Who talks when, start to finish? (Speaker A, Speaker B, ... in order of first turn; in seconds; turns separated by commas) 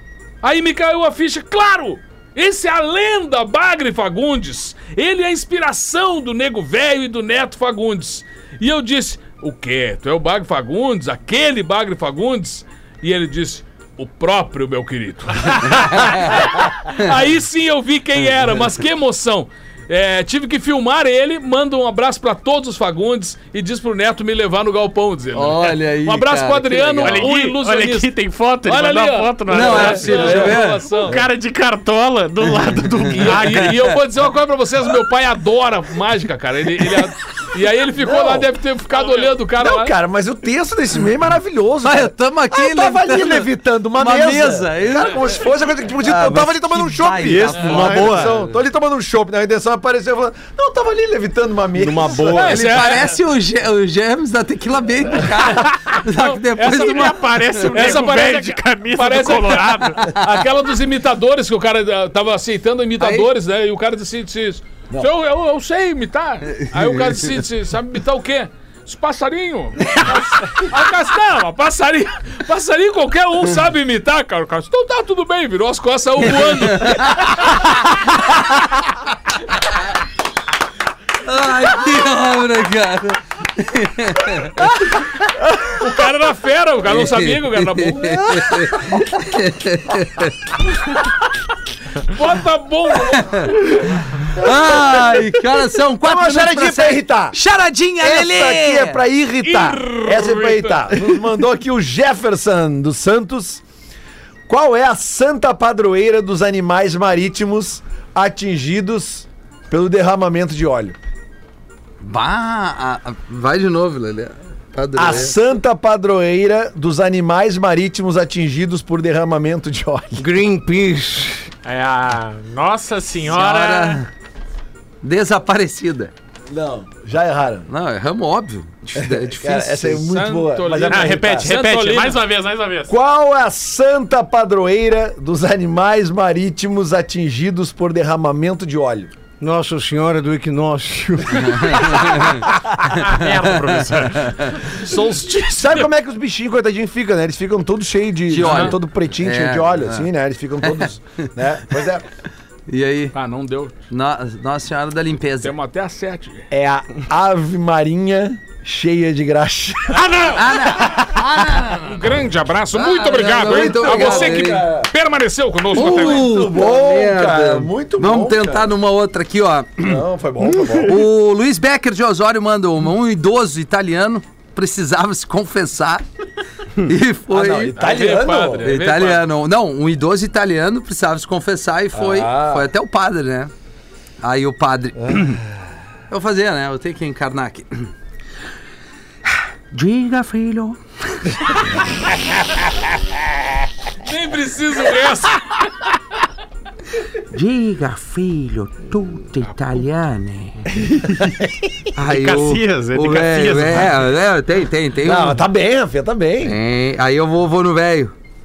Speaker A: 0.4-31.2, Speaker B: 15.7-16.4, Speaker B: 25.3-27.3, Speaker C: 27.0-33.7, Speaker B: 29.5-30.9, Speaker D: 30.1-31.2, Speaker A: 33.1-39.9, Speaker D: 38.0-38.5, Speaker C: 39.0-39.3, Speaker D: 39.6-52.5, Speaker B: 41.8-45.3, Speaker B: 45.9-48.6, Speaker E: 47.2-48.3, Speaker E: 51.8-52.7, Speaker A: 52.3-53.2, Speaker B: 52.5-58.0, Speaker A: 55.5-77.9, Speaker C: 56.6-60.2, Speaker B: 63.0-63.3, Speaker B: 66.5-67.3, Speaker B: 76.5-77.7, Speaker B: 81.2-85.1, Speaker A: 85.6-88.6, Speaker B: 86.9-90.3, Speaker A: 92.0-94.0, Speaker B: 93.2-93.5, Speaker B: 94.2-99.0, Speaker D: 94.4-94.9, Speaker D: 96.0-97.3, Speaker D: 98.0-103.6, Speaker A: 99.4-100.9, Speaker D: 104.5-111.0, Speaker B: 112.0-115.4, Speaker D: 115.0-120.2, Speaker E: 120.2-121.5, Speaker C: 121.6-124.0, Speaker B: 123.2-124.1, Speaker B: 125.0-126.1, Speaker D: 126.5-127.7, Speaker B: 127.7-130.1, Speaker D: 128.9-131.6, Speaker A: 130.1-132.3, Speaker C: 130.8-132.9, Speaker D: 132.9-139.1, Speaker E: 139.4-142.1, Speaker B: 141.7-142.4, Speaker C: 142.9-145.0, Speaker B: 143.7-144.6, Speaker A: 144.8-145.9, Speaker D: 145.6-152.0, Speaker B: 148.3-150.1, Speaker A: 148.4-148.7, Speaker B: 152.7-153.1, Speaker A: 153.1-153.8, Speaker B: 153.9-155.5, Speaker A: 155.4-156.5, Speaker D: 156.5-160.3, Speaker C: 159.9-161.0, Speaker B: 160.3-162.0, Speaker A: 161.7-166.3, Speaker B: 162.7-164.7, Speaker D: 163.4-164.9, Speaker D: 165.7-168.7, Speaker B: 165.7-170.0, Speaker D: 169.8-171.0, Speaker B: 170.8-176.0, Speaker B: 176.8-177.8, Speaker D: 177.3-178.7, Speaker A: 177.8-179.2, Speaker B: 178.6-183.5, Speaker D: 181.9-182.7, Speaker B: 184.2-185.4, Speaker B: 186.1-187.9, Speaker B: 189.7-191.6, Speaker A: 194.0-195.8, Speaker B: 197.3-200.7, Speaker C: 200.7-201.4, Speaker B: 201.9-205.4, Speaker C: 202.0-204.1, Speaker D: 205.0-206.6, Speaker B: 206.4-208.1